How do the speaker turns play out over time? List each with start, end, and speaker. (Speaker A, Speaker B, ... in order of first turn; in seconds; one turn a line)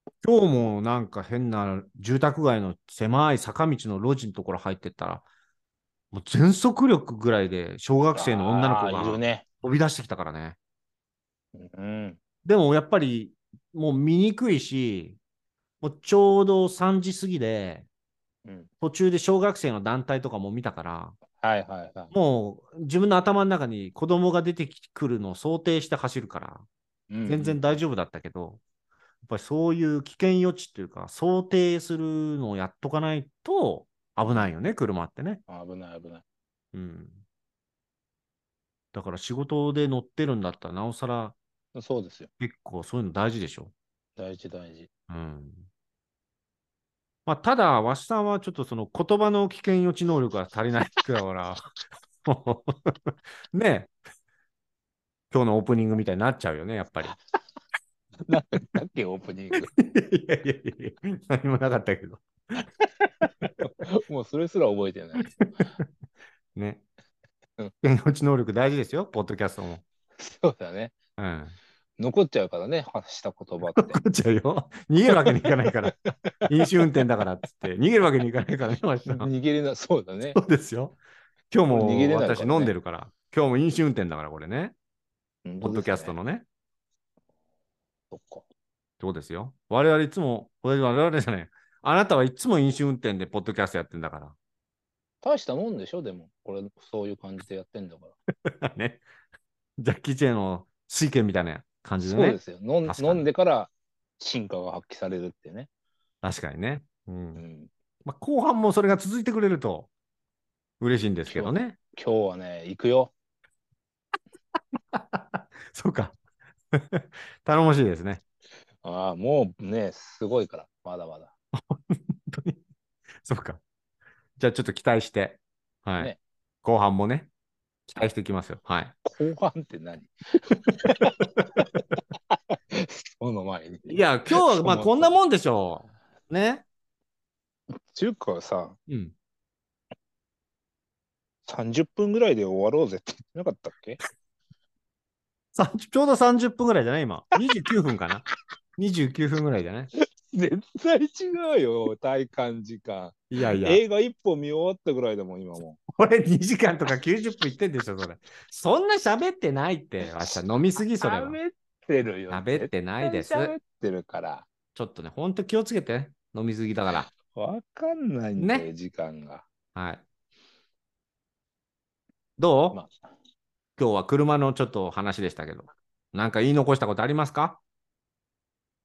Speaker A: 0.2-5.2
Speaker A: 6.1-10.6
Speaker B: 8.2-9.4
Speaker B: 11.5-12.2
Speaker A: 12.4-15.2
Speaker A: 15.8-17.9
Speaker A: 18.8-21.2
Speaker B: 21.4-22.1
Speaker A: 22.1-26.7
Speaker B: 27.1-27.8
Speaker A: 27.3-28.6
Speaker A: 29.2-35.4
Speaker B: 34.3-34.5
Speaker B: 35.5-36.2
Speaker A: 36.7-37.2
Speaker A: 38.9-41.4
Speaker B: 41.8-42.3
Speaker A: 42.4-43.7
Speaker B: 44.2-44.9
Speaker A: 45.1-45.7
Speaker A: 47.3-51.6
Speaker A: 52.2-53.9
Speaker A: 55.3-57.1
Speaker B: 58.3-59.7
Speaker A: 59.6-62.6
Speaker A: 63.2-63.5
Speaker B: 63.6-65.3
Speaker A: 65.4-65.8
Speaker A: 66.5-66.8
Speaker A: 67.8-69.8
Speaker B: 70.2-71.0
Speaker A: 71.2-71.6
Speaker B: 72.0-74.0
Speaker A: 73.8-76.0
Speaker B: 75.1-75.5
Speaker B: 76.1-76.9
Speaker A: 76.5-79.3
Speaker B: 79.1-80.4
Speaker A: 80.3-81.0
Speaker A: 81.5-84.8
Speaker B: 81.7-82.7
Speaker B: 85.5-86.1
Speaker A: 85.6-86.5
Speaker B: 88.1-88.5
Speaker A: 89.0-94.4
Speaker B: 95.2-98.2
Speaker A: 98.5-99.0
Speaker A: 99.8-103.3
Speaker B: 102.1-105.7
Speaker A: 106.2-107.4
Speaker B: 107.4-107.7
Speaker A: 108.0-109.9
Speaker A: 110.8-111.8
Speaker B: 111.3-113.1
Speaker A: 114.9-116.2
Speaker A: 116.7-118.2
Speaker B: 118.8-121.3
Speaker A: 121.6-122.6
Speaker A: 123.2-123.6
Speaker A: 124.4-126.1
Speaker A: 126.6-127.3
Speaker A: 127.9-129.0
Speaker B: 129.1-135.2
Speaker A: 133.9-136.6
Speaker B: 137.9-138.8
Speaker A: 138.9-139.1
Speaker B: 141.5-144.0
Speaker A: 145.6-148.3
Speaker A: 148.8-149.9
Speaker B: 150.2-155.8
Speaker A: 153.3-153.8
Speaker A: 155.9-161.4
Speaker B: 161.0-164.5
Speaker A: 162.3-163.5
Speaker A: 164.8-167.1
Speaker B: 167.1-169.5
Speaker A: 168.4-168.7
Speaker A: 169.7-170.0
Speaker A: 172.4-172.8
Speaker B: 172.7-173.0
Speaker A: 173.8-177.6